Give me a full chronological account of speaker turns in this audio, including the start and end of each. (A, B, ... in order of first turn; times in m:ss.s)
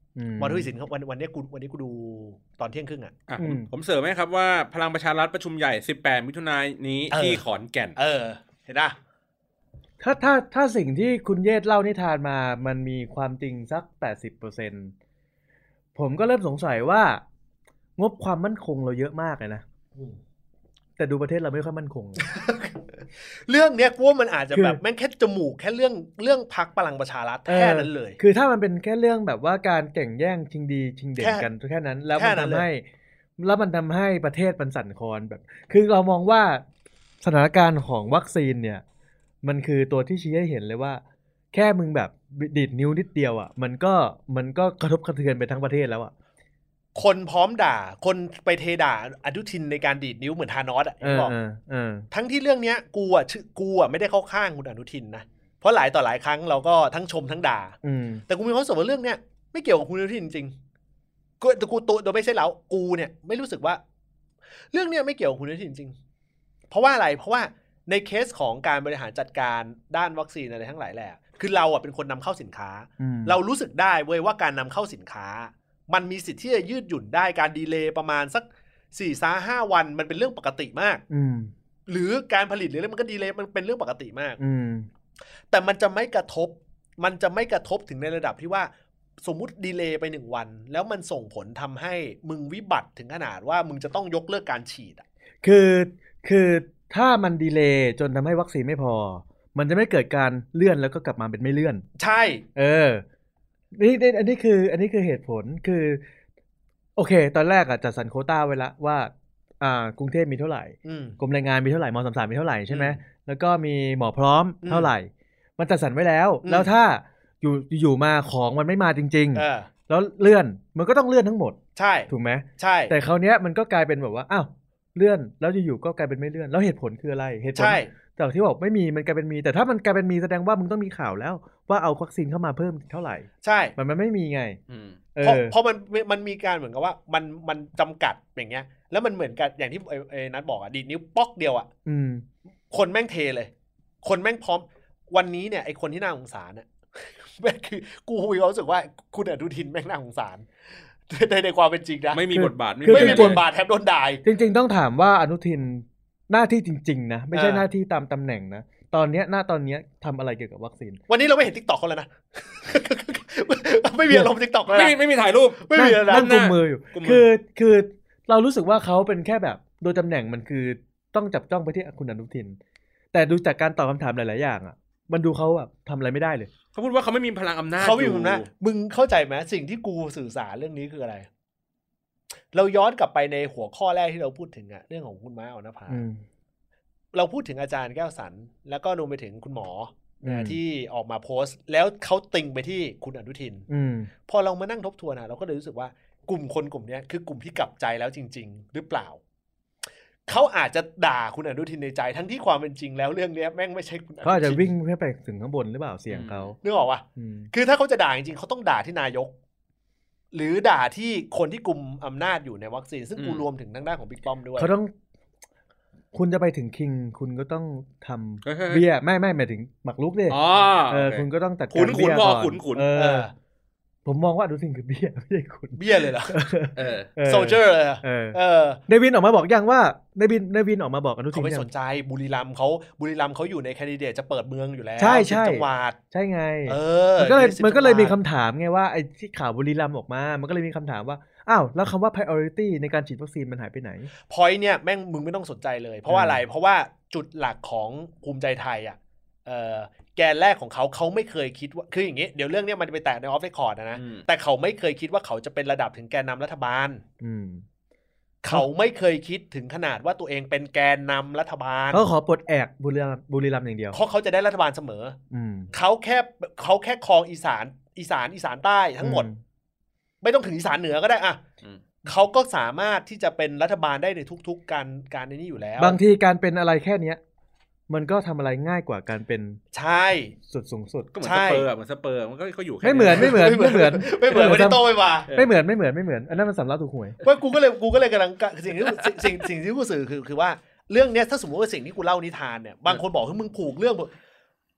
0:00.2-0:00.7 A
0:00.4-0:03.1 B
0:03.3-0:08.0 C
0:03.4-0:03.7 A
0:07.1-0:07.4 B
0:08.0-0:09.0 B
0:10.0-0:14.9 A
0:16.0-0:17.2 A
0:18.0-0:19.6 A
0:21.0-0:22.2 A
0:22.2-0:28.2 B
0:24.5-0:24.8 A
0:27.5-0:32.8 A
0:31.2-0:31.5 B
0:32.1-0:32.7 B
0:33.4-0:36.6 A
0:37.2-0:38.8 A
0:39.4-0:41.0 A
0:41.5-0:46.1 A
0:47.0-0:51.4 B
0:51.0-0:52.1 A
0:52.1-0:57.8 B
0:57.8-0:58.2 A
0:58.3-1:00.6 B
1:01.4-1:03.8 B
1:04.7-1:06.0 B
1:06.7-1:21.0 B
1:13.0-1:13.4 A
1:21.1-1:21.5 A
1:21.9-1:24.4 B
1:24.4-1:24.9 A
1:25.5-1:28.7 B
1:29.2-1:35.0 B
1:35.4-1:41.8 A
1:42.0-1:42.4 B
1:42.6-1:43.0 A
1:43.7-1:46.0 A
1:47.0-2:01.6 A
1:50.8-1:51.2 B
1:52.7-1:53.0 B
1:54.6-1:54.9 B
1:56.4-1:56.7 B
1:59.4-1:59.7 B
2:01.8-2:02.9 B
2:02.1-2:14.6 A
2:07.6-2:07.9 B
2:13.4-2:13.8 B
2:14.7-2:15.0 C
2:15.2-2:15.6 A
2:15.2-2:21.7 B
2:21.8-2:22.2 A
2:22.7-2:23.5 B
2:24.0-2:30.5 B
2:31.1-2:32.2 B
2:32.1-2:33.4 C
2:32.3-2:33.4 A
2:32.9-2:34.2 B
2:34.2-2:41.0 A
2:37.3-2:37.7 B
2:41.1-2:45.0 B
2:44.7-2:47.3 C
2:45.6-2:46.3 B
2:45.8-2:52.6 A
2:53.1-2:56.5 A
2:56.7-2:58.5 C
2:57.8-3:01.3 B
3:02.5-3:06.0 B
3:05.9-3:06.2 A
3:07.1-3:13.7 B
3:10.2-3:10.6 A
3:13.7-3:14.1 A
3:14.3-3:19.2 B
3:20.3-3:24.7 B
3:24.2-3:26.6 A
3:26.1-3:26.5 C
3:26.6-3:29.3 B
3:27.2-3:27.5 A
3:30.3-3:34.7 B
3:33.2-3:33.4 C
3:34.6-3:34.9 A
3:36.1-3:43.3 A
3:38.4-3:38.8 C
3:40.3-3:42.9 C
3:42.9-3:43.3 B
3:44.0-3:48.4 A
3:45.8-3:46.4 B
3:46.8-3:47.1 C
3:47.2-3:48.8 B
3:48.9-3:51.7 A
3:51.3-3:56.0 B
3:55.0-4:04.1 A
3:56.7-3:58.2 B
4:04.3-4:17.0 B
4:06.1-4:06.4 A
4:14.0-4:14.2 C
4:17.2-4:17.6 A
4:18.4-4:22.0 B
4:21.9-4:24.0 A
4:23.9-4:25.2 B
4:25.3-4:25.7 A
4:25.7-4:29.3 B
4:29.0-4:29.4 A
4:30.2-4:31.4 B
4:32.0-4:36.0 B
4:35.8-4:37.2 A
4:37.9-4:39.6 A
4:39.7-4:40.4 B
4:40.4-4:41.1 A
4:41.1-4:43.4 C
4:41.2-4:41.7 B
4:42.8-4:47.2 A
4:43.1-4:45.3 B
4:47.2-4:54.1 B